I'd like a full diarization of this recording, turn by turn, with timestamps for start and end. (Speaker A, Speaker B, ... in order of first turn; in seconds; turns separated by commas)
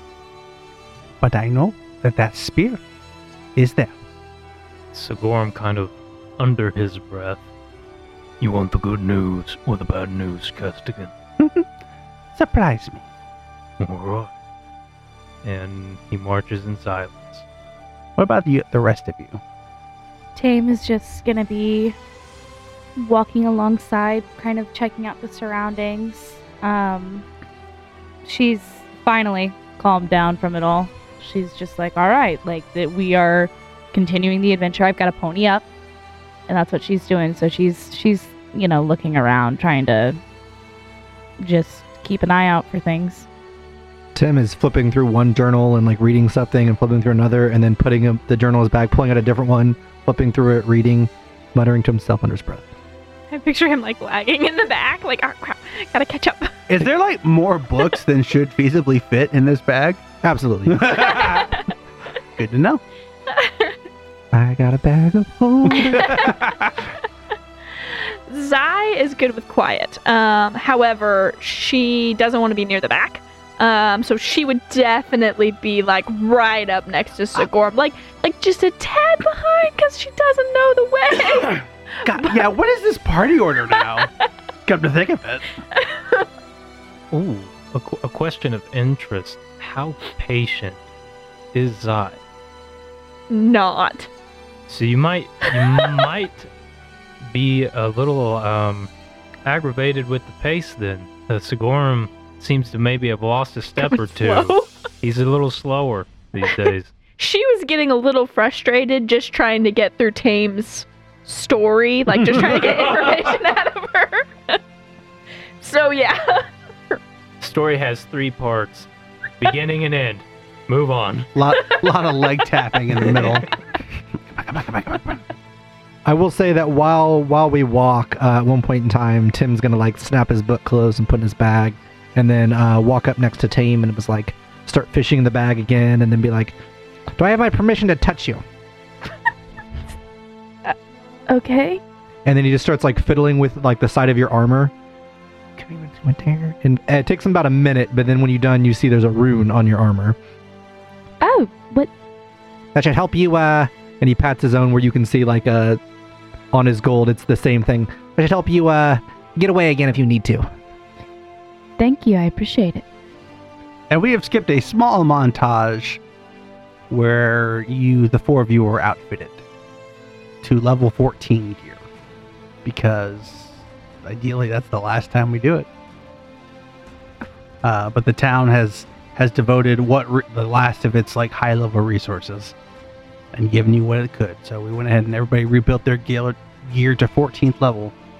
Speaker A: 1.2-2.8, Speaker A: 3.5-4.0, Speaker B: 4.9-7.4, Speaker B: 8.4-11.1, Speaker A: 11.4-11.7, Speaker A: 12.3-13.1, Speaker B: 13.8-14.3, Speaker B: 15.4-17.4, Speaker A: 18.2-19.4, Speaker C: 20.3-21.9, Speaker C: 23.0-27.2, Speaker C: 28.2-35.6, Speaker C: 36.5-40.2, Speaker C: 41.4-43.3, Speaker D: 44.1-52.7, Speaker E: 53.3-56.6, Speaker A: 56.7-60.0, Speaker D: 60.2-61.2, Speaker A: 60.7-61.6, Speaker A: 62.4-62.8, Speaker E: 63.3-63.8, Speaker D: 64.3-66.3, Speaker A: 65.7-66.8, Speaker E: 65.8-66.3, Speaker E: 67.8-82.4, Speaker A: 82.0-84.1, Speaker A: 84.7-85.5, Speaker E: 85.8-86.2, Speaker B: 87.1-90.8, Speaker B: 91.5-92.2, Speaker E: 93.3-94.1, Speaker B: 94.7-96.5, Speaker B: 97.2-98.9, Speaker B: 99.4-106.9, Speaker E: 103.8-104.7, Speaker E: 107.2-114.6, Speaker B: 112.5-113.3, Speaker E: 115.6-117.0, Speaker B: 117.4-118.9, Speaker B: 119.4-121.3, Speaker A: 121.3-123.5, Speaker A: 124.3-125.2, Speaker D: 126.0-136.5, Speaker D: 137.1-138.4, Speaker C: 141.3-141.8, Speaker D: 142.2-144.7, Speaker D: 145.6-150.2, Speaker C: 151.2-151.9, Speaker D: 152.7-155.8, Speaker D: 156.5-160.4, Speaker C: 161.8-162.8, Speaker A: 163.9-166.0, Speaker A: 166.9-169.4, Speaker A: 170.4-171.8, Speaker A: 172.6-175.7, Speaker A: 177.6-182.5, Speaker A: 183.3-187.9